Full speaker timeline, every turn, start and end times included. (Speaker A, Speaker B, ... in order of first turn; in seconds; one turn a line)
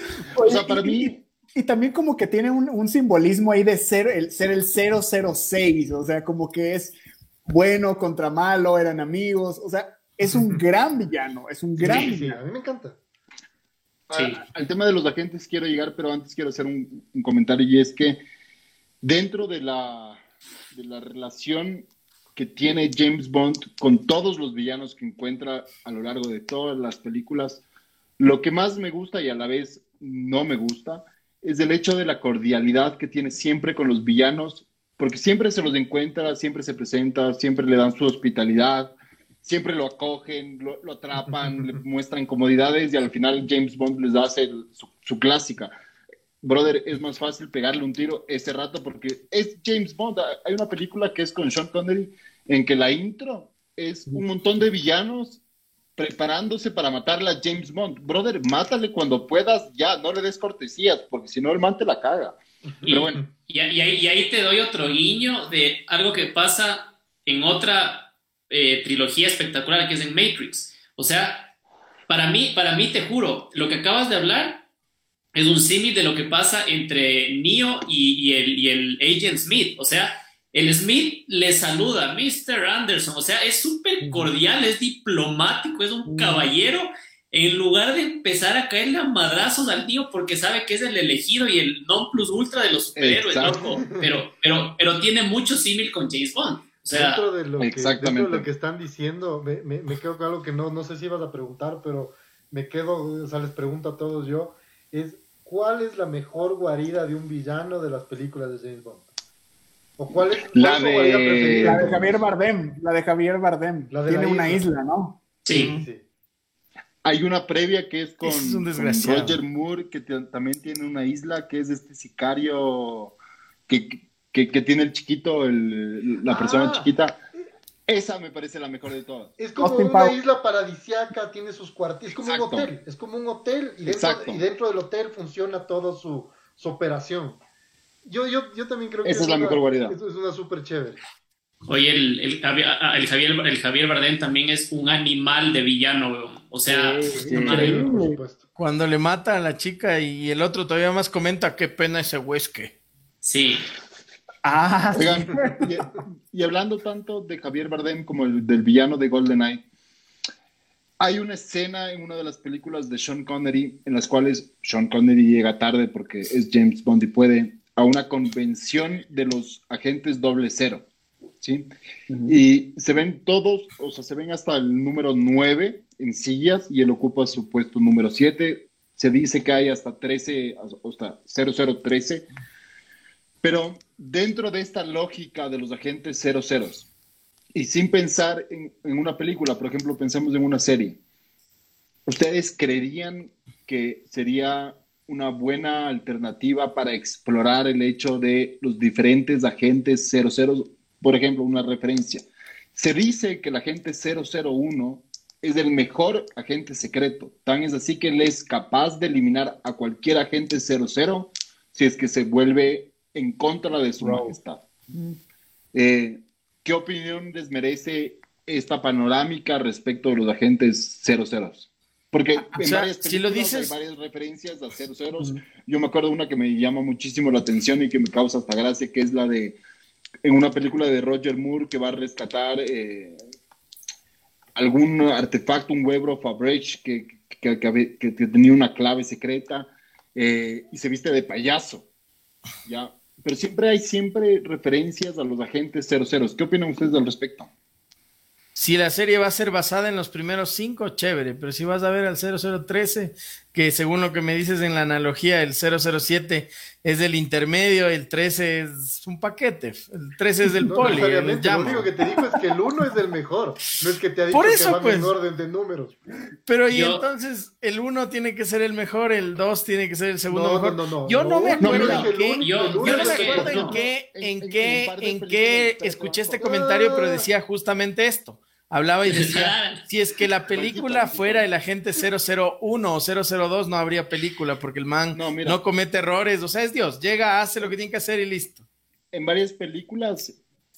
Speaker A: 0.3-1.2
Speaker B: 0.3-6.9
Speaker B: 7.5-12.4
Speaker C: 10.3-10.6
Speaker C: 11.8-13.0
Speaker D: 11.8-12.1
Speaker D: 14.1-14.4
Speaker A: 14.1-18.2
Speaker A: 19.0-20.2
Speaker A: 20.7-27.6
Speaker A: 28.2-38.9
Speaker A: 39.4-45.7
Speaker A: 46.4-55.4
Speaker A: 56.0-63.2
Speaker C: 62.8-63.3
Speaker D: 62.9-71.5
Speaker D: 72.1-74.6
Speaker D: 75.3-97.2
Speaker B: 84.0-84.3
Speaker B: 86.0-86.5
Speaker A: 93.0-93.7
Speaker C: 93.5-94.1
Speaker C: 96.9-109.1
Speaker A: 97.6-98.5
Speaker C: 110.0-112.1
Speaker A: 110.3-112.2
Speaker B: 111.5-115.2
Speaker C: 113.9-114.6
Speaker D: 115.4-115.8
Speaker C: 115.5-116.0
Speaker A: 117.0-123.1
Speaker E: 118.2-119.4
Speaker A: 123.7-127.2
Speaker C: 126.2-126.9
Speaker A: 127.9-129.4
Speaker C: 129.4-137.4
Speaker B: 129.6-130.2
Speaker A: 132.2-132.7
Speaker A: 133.8-134.4
Speaker C: 138.0-141.0
Speaker A: 139.0-139.9
Speaker D: 141.7-147.9
Speaker B: 146.7-148.2
Speaker A: 147.3-147.8
Speaker C: 147.4-148.4
Speaker E: 148.6-152.7
Speaker D: 153.2-153.7
Speaker B: 154.4-155.7
Speaker A: 154.9-159.6
Speaker A: 161.0-170.8
Speaker A: 171.4-171.7
Speaker B: 172.1-172.3
Speaker A: 172.2-182.2
Speaker A: 183.4-186.8
Speaker A: 187.5-191.0
Speaker A: 192.1-215.0
Speaker B: 214.0-214.3
Speaker A: 215.7-229.6
Speaker E: 222.5-223.7
Speaker A: 230.2-233.2
Speaker A: 234.6-241.8
Speaker A: 242.7-247.5
Speaker E: 248.5-261.9
Speaker C: 260.6-266.0
Speaker E: 264.3-265.1
Speaker E: 266.4-288.6
Speaker D: 266.7-267.1
Speaker C: 270.3-273.8
Speaker A: 271.6-272.1
Speaker D: 271.6-273.8
Speaker A: 273.0-276.4
Speaker C: 276.4-277.3
Speaker D: 279.0-279.8
Speaker A: 280.5-281.5
Speaker A: 285.1-285.6
Speaker A: 289.1-290.4